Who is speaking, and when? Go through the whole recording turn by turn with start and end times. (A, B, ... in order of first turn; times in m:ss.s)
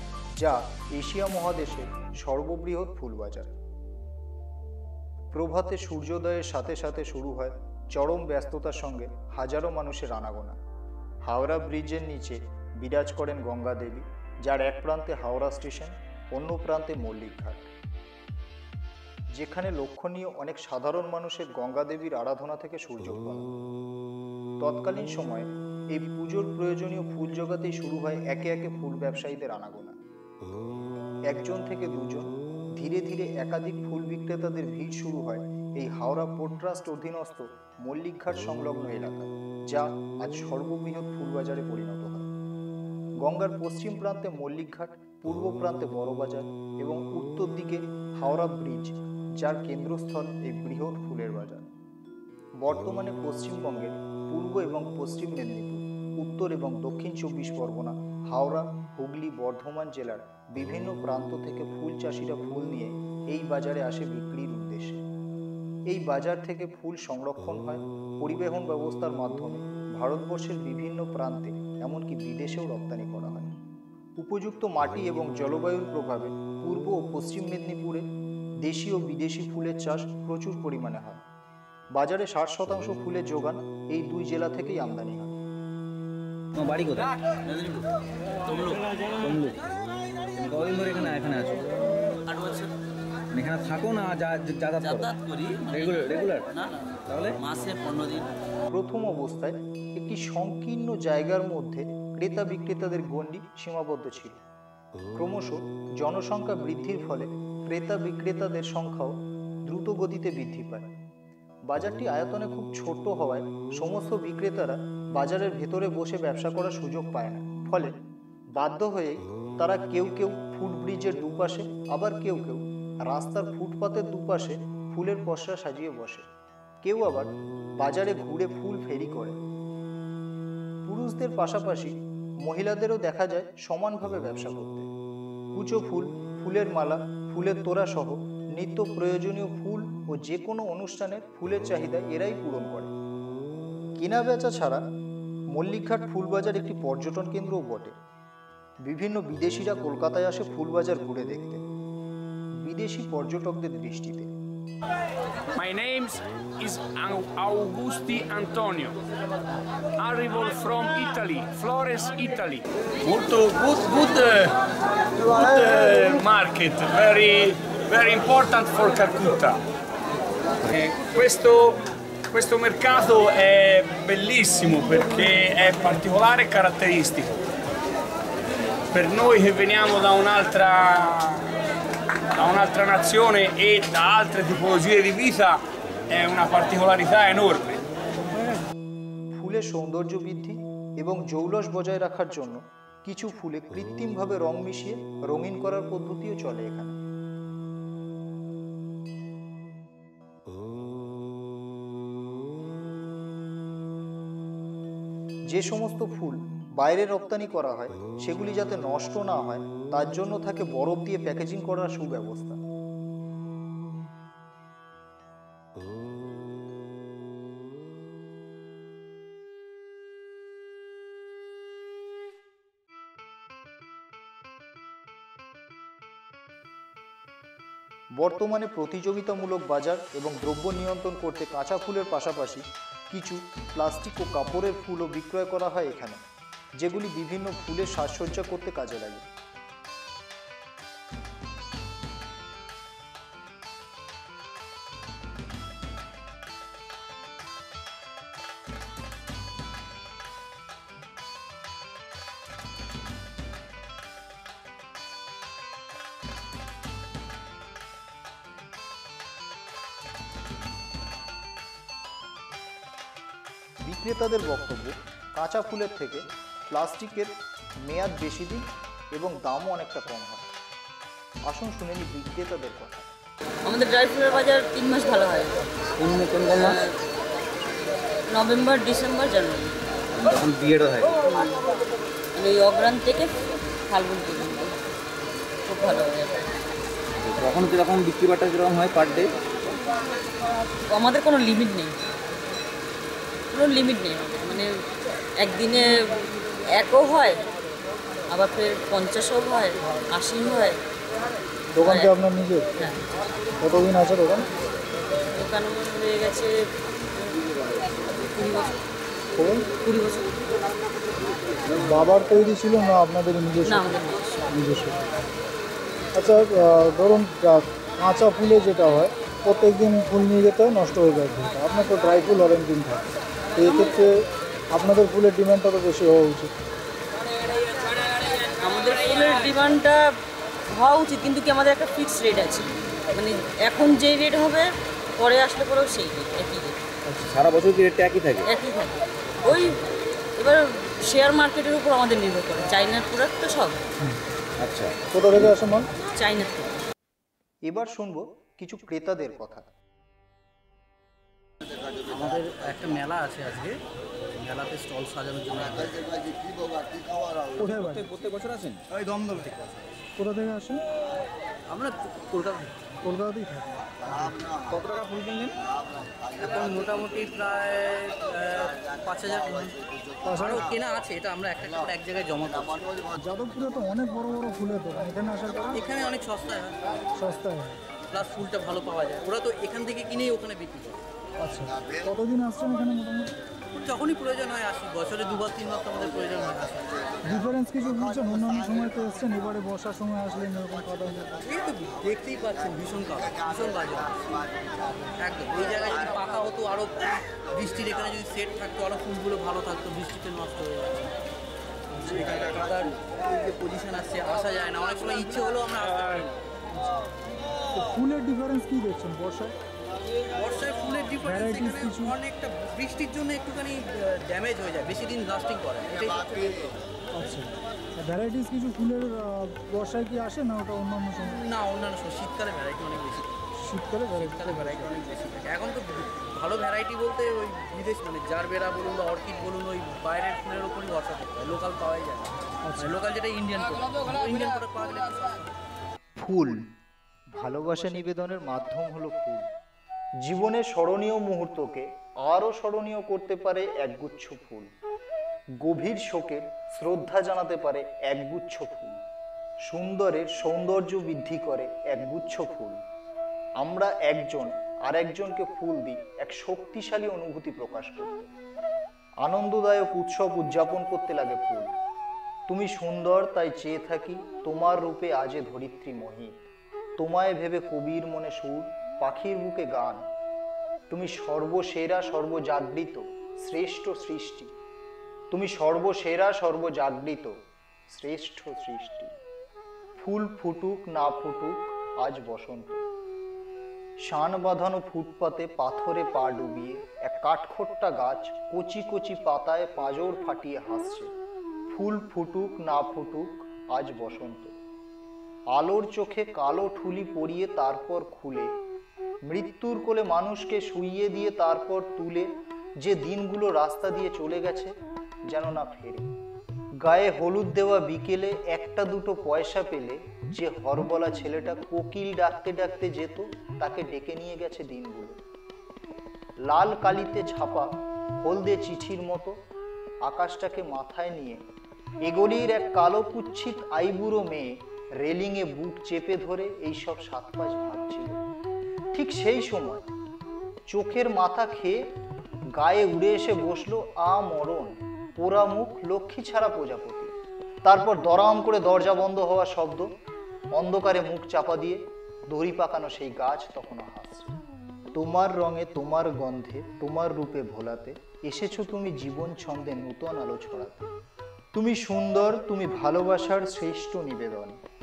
0:00.4-0:03.5 A
0:05.3-0:10.6 A
0:11.2-0:17.7 A
0:19.3-0:23.5 A
0:24.6-0:30.0 A
0:31.3-0:42.3 A
0:43.2-0:51.7 A
0:52.6-1:05.0 A
1:05.9-1:13.5 A
1:14.2-1:18.0 A
1:18.6-1:21.2 A
1:21.9-1:25.4 A
1:26.6-1:27.8 B
1:28.4-1:28.8 C
1:29.2-1:29.6 B
1:30.4-1:32.0 B
1:32.3-1:32.7 C
1:33.3-1:36.5 B
1:35.4-1:35.8 C
1:37.1-1:37.4 B
1:37.4-1:38.3 C
1:38.7-1:44.4 A
1:45.2-1:50.9 A
1:51.7-1:58.0 A
1:58.6-2:06.3 A
2:06.8-2:09.4 A
2:10.8-2:14.9 A
2:15.5-2:22.9 A
2:24.0-2:24.8 A
2:25.5-2:27.9 A
2:28.8-2:31.6 A
2:32.6-2:34.3 A
2:35.6-2:39.0 D
2:40.0-2:44.6 D
2:45.2-2:49.6 D
2:50.7-2:57.4 D
2:58.9-3:01.5 D
3:02.4-3:07.8 D
3:09.3-3:17.0 A
3:25.5-3:32.6 A
3:48.2-3:56.2 A
3:56.8-3:59.2 A
4:23.8-4:27.3 A
4:27.8-4:30.5 A
4:31.5-4:33.1 A
4:33.6-4:35.6 E
4:36.0-4:36.8 B
4:38.3-4:39.8 E
4:40.1-4:41.2 B
4:41.2-4:41.6 E
4:42.4-4:43.3 E
4:43.9-4:44.8 E
4:45.6-4:46.6 E
4:47.2-4:49.8 B
4:50.9-4:52.0 E
4:53.5-4:54.8 E
4:55.4-4:57.4 E
4:58.3-5:00.8 E
5:01.8-5:02.6 A
5:01.8-5:02.2 E
5:02.8-5:03.0 E
5:03.6-5:04.4 A
5:05.2-5:06.6 E
5:07.2-5:08.8 E
5:09.7-5:10.3 E
5:12.1-5:13.5 F
5:12.2-5:13.7 A
5:13.6-5:14.5 E
5:14.5-5:14.9 A
5:16.2-5:23.0 F
5:23.6-5:24.1 F
5:24.7-5:26.5 F
5:28.2-5:30.2 E
5:30.7-5:36.8 E
5:37.2-5:38.5 B
5:38.5-5:39.8 E
5:40.4-5:43.8 E
5:44.6-5:45.0 B
5:45.1-5:45.9 A
5:46.0-5:46.8 E
5:47.7-5:49.7 A
5:52.0-5:53.8 C
5:54.4-5:56.4 C
5:57.6-5:58.8 B
5:57.6-5:58.0 F
5:59.3-5:59.7 C
6:00.2-6:00.8 F
6:01.7-6:02.8 C
6:03.1-6:04.3 F
6:04.7-6:05.5 B
6:06.2-6:13.1 C
6:13.3-6:15.8 F
6:14.0-6:15.5 A
6:15.7-6:17.0 C
6:17.4-6:17.8 F
6:18.1-6:21.0 C
6:21.4-6:23.3 F
6:23.7-6:27.2 C
6:27.3-6:31.4 F
6:27.5-6:28.5 A
6:29.4-6:30.1 A
6:31.4-6:41.1 C
6:41.9-6:46.3 C
6:47.7-6:49.5 F
6:50.4-6:56.8 C
6:51.5-6:52.1 F
6:57.2-6:57.5 F
6:58.0-7:01.3 F
6:58.3-6:58.8 A
7:01.2-7:03.5 C
7:03.7-7:04.1 A
7:03.8-7:04.5 F
7:04.1-7:15.4 C
7:16.2-7:16.6 A
7:17.3-7:19.5 A
7:20.2-7:24.7 A
7:25.6-7:29.0 A
7:29.7-7:32.8 A
7:33.6-7:38.3 A
7:39.2-7:41.7 A
7:42.5-7:46.5 A
7:47.0-7:50.0 A
7:50.9-7:54.5 A
7:55.3-7:57.4 A
7:57.9-7:59.2 A
8:00.0-8:02.8 A
8:04.0-8:11.1 A
8:11.7-8:14.5 A
8:15.5-8:18.5 A
8:19.2-8:24.7 A
8:25.3-8:26.1 A
8:26.8-8:35.2 A
8:36.4-8:39.4 A
8:40.0-8:41.4 A
8:42.0-8:48.2 A
8:48.9-8:49.9 A
8:50.7-8:51.9 A
8:52.5-8:59.9 A
9:00.5-9:04.4 A
9:04.9-9:10.9 A
9:11.5-9:14.6 A